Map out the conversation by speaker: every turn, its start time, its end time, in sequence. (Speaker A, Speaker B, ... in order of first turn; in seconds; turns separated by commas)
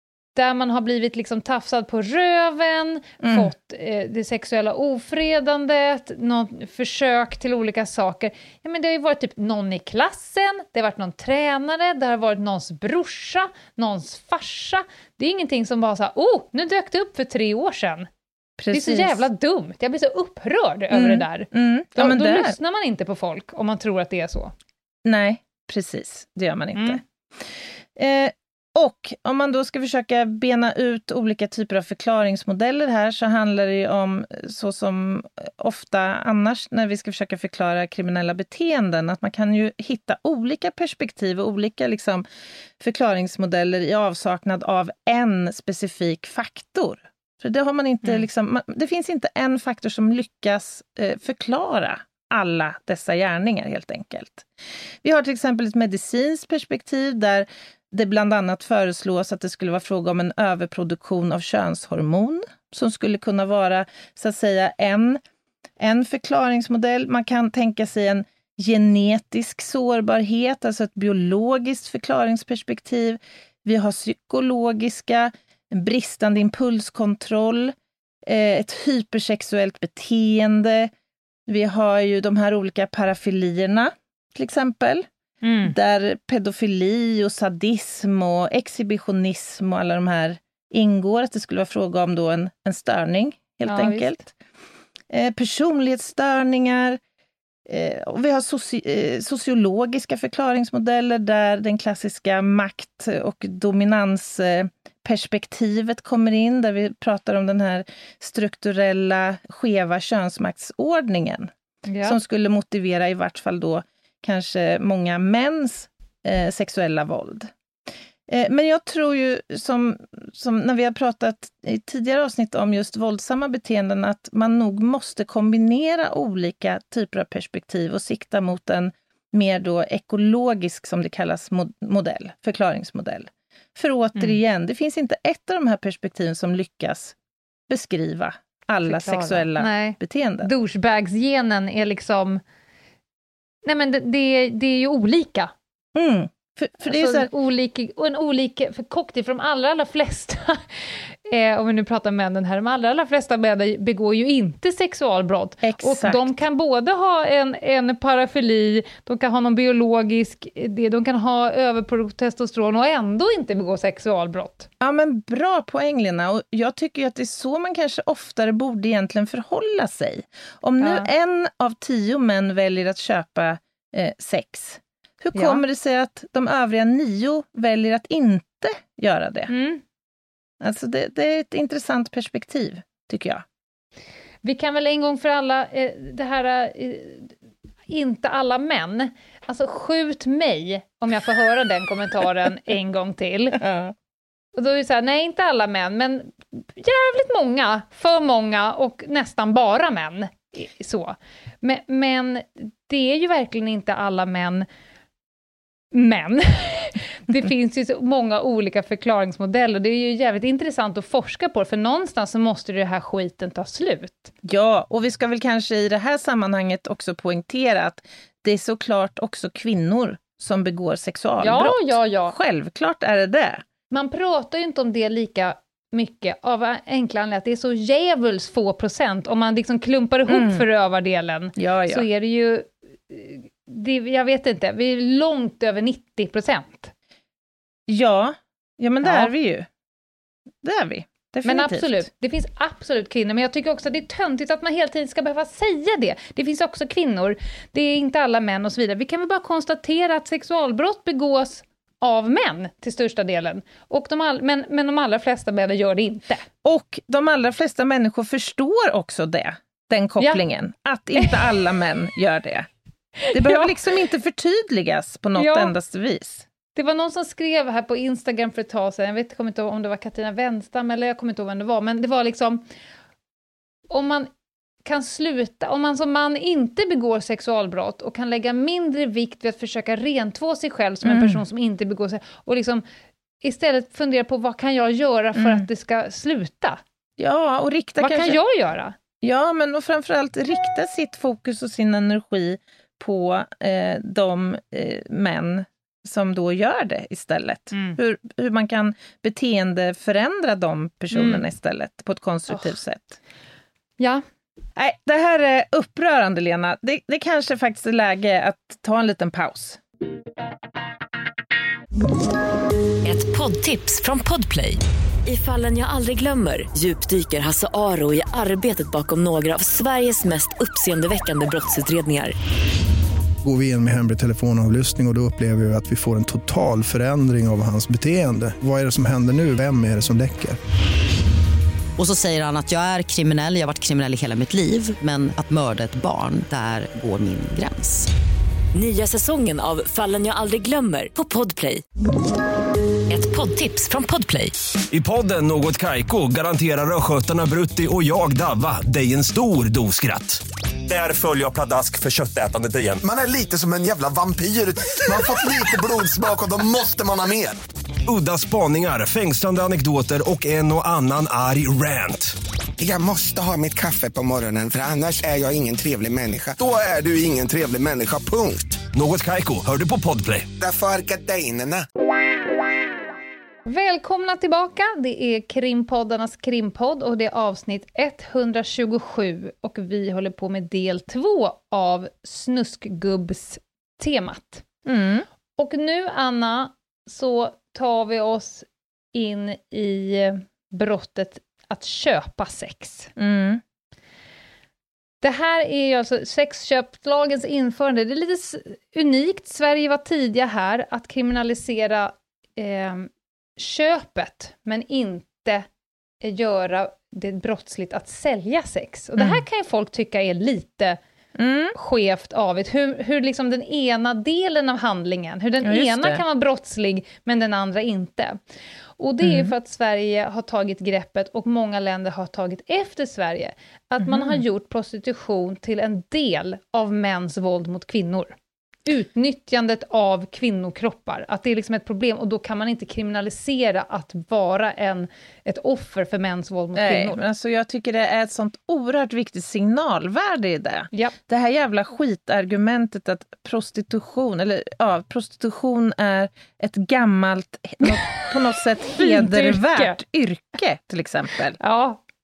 Speaker A: 0.4-18.1, Speaker B: 3.2-3.5, Speaker B: 18.6-19.2, Speaker A: 18.7-24.5, Speaker B: 20.9-22.6, Speaker B: 25.1-27.0, Speaker A: 26.8-27.0, Speaker B: 27.9-42.2, Speaker B: 42.8-54.5, Speaker B: 55.0-65.2, Speaker B: 65.8-77.7, Speaker B: 78.2-80.9, Speaker B: 81.5-85.1, Speaker A: 85.4-85.8, Speaker B: 85.7-94.3, Speaker A: 93.7-94.2, Speaker B: 95.1-97.0, Speaker B: 97.7-111.5, Speaker A: 111.9-112.2, Speaker B: 112.0-117.5, Speaker B: 118.3-137.2, Speaker B: 137.7-140.5, Speaker A: 138.8-142.4, Speaker A: 143.7-145.5, Speaker B: 145.9-147.3, Speaker A: 146.8-164.7, Speaker B: 155.6-156.3, Speaker B: 164.8-179.5, Speaker A: 170.8-171.1, Speaker A: 175.3-175.6, Speaker A: 179.5-179.8, Speaker B: 180.6-183.4, Speaker A: 184.4-187.3, Speaker A: 187.9-193.6, Speaker B: 193.6-193.9, Speaker A: 194.6-204.7, Speaker A: 205.9-214.3, Speaker B: 214.4-223.6, Speaker A: 221.4-222.4, Speaker A: 223.9-236.9, Speaker B: 230.3-230.7, Speaker B: 231.6-232.1, Speaker B: 237.9-239.7, Speaker A: 239.0-239.3, Speaker B: 240.6-242.1, Speaker A: 241.4-256.5, Speaker B: 256.6-262.7, Speaker A: 263.2-263.8, Speaker B: 263.3-266.5, Speaker A: 265.4-265.7, Speaker A: 266.8-272.6, Speaker A: 273.9-274.3, Speaker A: 274.9-282.8, Speaker B: 281.0-281.4, Speaker A: 283.4-286.8, Speaker B: 285.4-285.6, Speaker B: 287.2-288.4, Speaker A: 288.0-289.0, Speaker B: 289.2-303.2, Speaker A: 297.7-298.0, Speaker A: 301.1-301.5, Speaker A: 304.0-304.2, Speaker B: 304.8-309.8, Speaker C: 313.0-322.3, Speaker D: 323.4-330.6, Speaker E: 332.0-338.1, Speaker C: 338.7-341.8, Speaker C: 343.1-344.5, Speaker F: 344.9-353.1, Speaker G: 353.1-357.6, Speaker F: 358.1-362.3, Speaker G: 362.8-368.8, Speaker F: 368.9-370.5, Speaker G: 370.6-371.9, Speaker A: 373.7-384.6, Speaker B: 384.9-385.3, Speaker A: 385.6-393.1, Speaker B: 393.2-393.6, Speaker A: 395.2-405.7, Speaker A: 406.2-411.0, Speaker B: 409.2-409.4, Speaker B: 411.4-411.8, Speaker A: 411.7-418.4, Speaker B: 415.6-416.2, Speaker A: 419.0-437.2, Speaker B: 419.2-419.5, Speaker B: 424.0-424.4, Speaker B: 436.8-451.6, Speaker A: 447.8-448.4, Speaker A: 448.9-450.0, Speaker A: 451.6-452.0